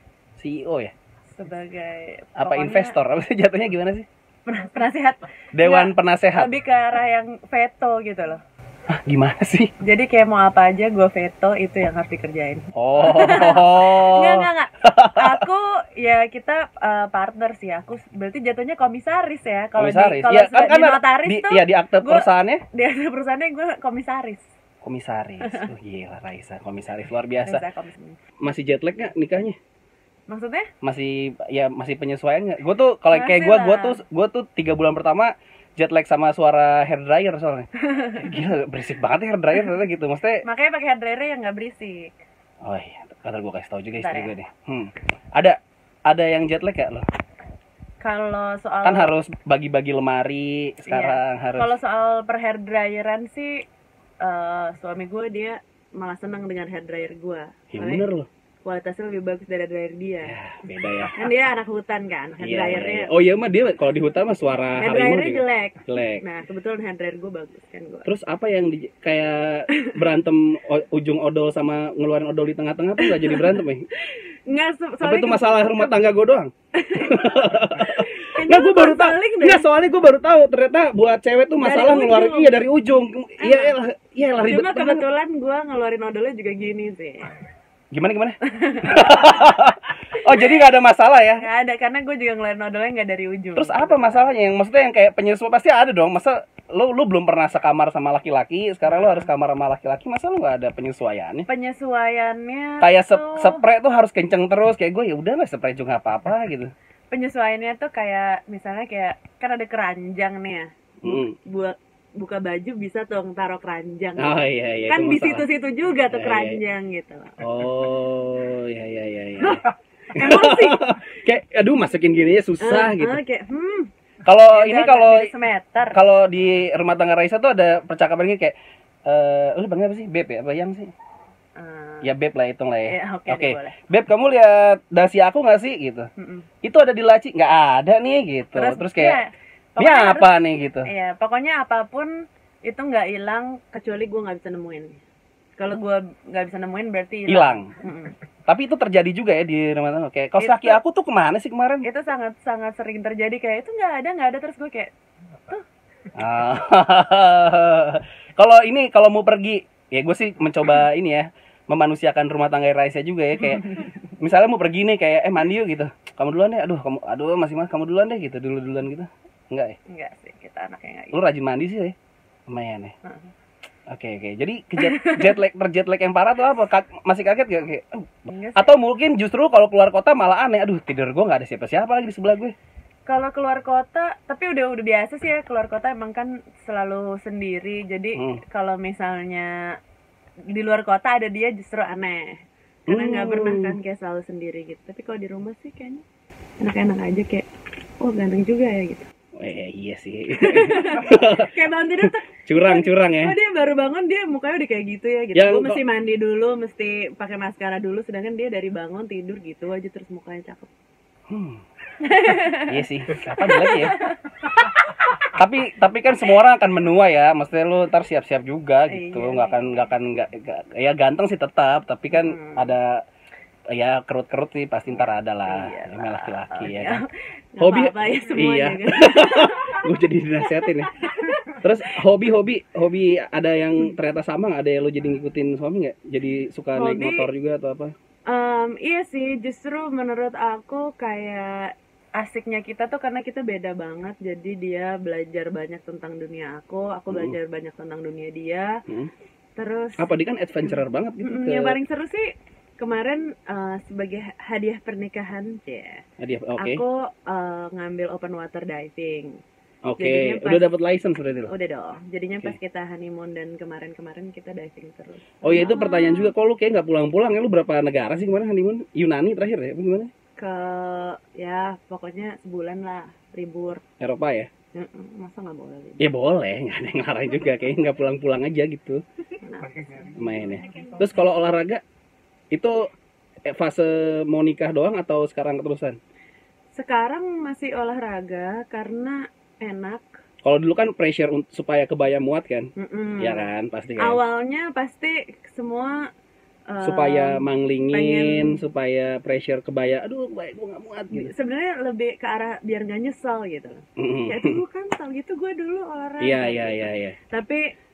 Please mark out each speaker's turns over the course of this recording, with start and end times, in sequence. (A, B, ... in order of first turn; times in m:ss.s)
0:00.4-0:00.9 A
0:01.3-0:03.0 B
0:02.4-0:04.0 A
0:04.4-0:08.4 B
0:05.5-0:06.5 A
0:08.9-0:09.7 A
0:09.8-0:24.5 B
0:12.7-0:15.3 A
0:19.8-0:22.6 A
0:24.8-0:27.6 A
0:25.4-0:25.7 B
0:27.5-0:28.2 B
0:28.4-0:29.6 A
0:30.3-0:30.7 B
0:30.8-0:40.4 A
0:33.1-0:34.0 B
0:37.8-0:38.4 B
0:40.4-0:42.1 B
0:42.6-0:45.6 A
0:44.0-0:44.3 B
0:46.1-0:47.0 A
0:48.0-0:49.1 B
0:48.8-0:51.8 A
0:50.9-0:53.6 B
0:54.2-0:58.0 B
0:57.7-0:58.3 A
0:58.6-1:00.4 B
1:00.2-1:01.1 A
1:01.0-1:03.2 B
1:02.4-1:06.2 A
1:04.8-1:08.1 B
1:08.0-1:13.8 A
1:13.0-1:16.0 B
1:15.0-1:25.0 A
1:16.7-1:19.6 B
1:21.6-1:22.6 B
1:23.4-1:23.8 B
1:24.4-1:27.3 B
1:27.9-1:31.4 A
1:28.4-1:29.6 B
1:30.2-1:30.6 B
1:31.4-1:34.2 B
1:33.6-1:41.5 A
1:38.8-1:39.3 B
1:41.5-1:43.6 B
1:42.8-1:46.7 A
1:47.1-1:57.4 B
1:51.0-1:51.3 A
1:54.2-1:55.4 A
1:56.1-1:56.6 A
1:57.4-1:59.6 A
2:00.1-2:00.8 B
2:00.1-2:03.2 A
2:02.6-2:03.9 B
2:04.2-2:05.3 A
2:04.4-2:06.0 B
2:05.9-2:08.5 A
2:09.0-2:10.9 A
2:11.6-2:12.1 B
2:12.0-2:16.1 A
2:12.9-2:13.8 B
2:16.2-2:16.5 B
2:16.6-2:19.2 A
2:18.5-2:20.3 B
2:19.8-2:20.9 A
2:20.8-2:25.0 B
2:25.6-2:28.1 B
2:27.3-2:27.7 A
2:28.5-2:31.8 A
2:30.4-2:30.8 B
2:31.8-2:34.9 B
2:36.2-2:49.8 A
2:49.9-2:51.2 B
2:51.1-2:51.9 A
2:52.5-2:52.9 A
2:53.0-2:53.3 B
2:53.9-3:02.5 A
2:54.8-2:55.3 B
2:58.3-2:58.8 B
3:03.0-3:09.7 B
3:10.5-3:16.0 B
3:12.9-3:13.8 A
3:16.6-3:17.5 B
3:18.0-3:19.1 B
3:19.4-3:21.5 A
3:20.4-3:30.7 B
3:22.4-3:23.3 A
3:25.3-3:25.8 A
3:31.3-3:31.6 A
3:32.0-3:34.6 B
3:32.6-3:34.0 A
3:35.3-3:43.0 A
3:38.9-3:39.9 B
3:42.1-3:42.7 B
3:43.7-3:47.0 A
3:44.9-3:49.9 B
3:47.6-3:51.0 A
3:50.4-3:51.9 B
3:51.6-3:57.9 A
3:56.7-3:57.3 B
3:58.3-4:08.8 B
4:07.1-4:07.4 A
4:09.6-4:10.1 B
4:10.0-4:11.8 A
4:10.6-4:12.2 B
4:12.8-4:16.0 B
4:16.2-4:16.8 A
4:16.6-4:19.4 B
4:19.8-4:21.5 A
4:20.0-4:20.7 B
4:21.5-4:26.3 B
4:25.4-4:30.1 A
4:30.4-4:33.8 B
4:34.0-4:34.5 A
4:34.7-4:36.0 B
4:36.0-4:39.0 A
4:39.4-4:40.9 B
4:40.2-4:41.8 A
4:42.5-4:42.9 A
4:43.4-4:46.0 A
4:46.7-4:50.1 B
4:50.4-4:54.2 A
4:52.8-4:56.0 B
4:56.7-4:58.6 B
4:56.8-5:01.3 A
5:01.1-5:07.7 B
5:04.0-5:04.6 A
5:06.2-5:07.2 A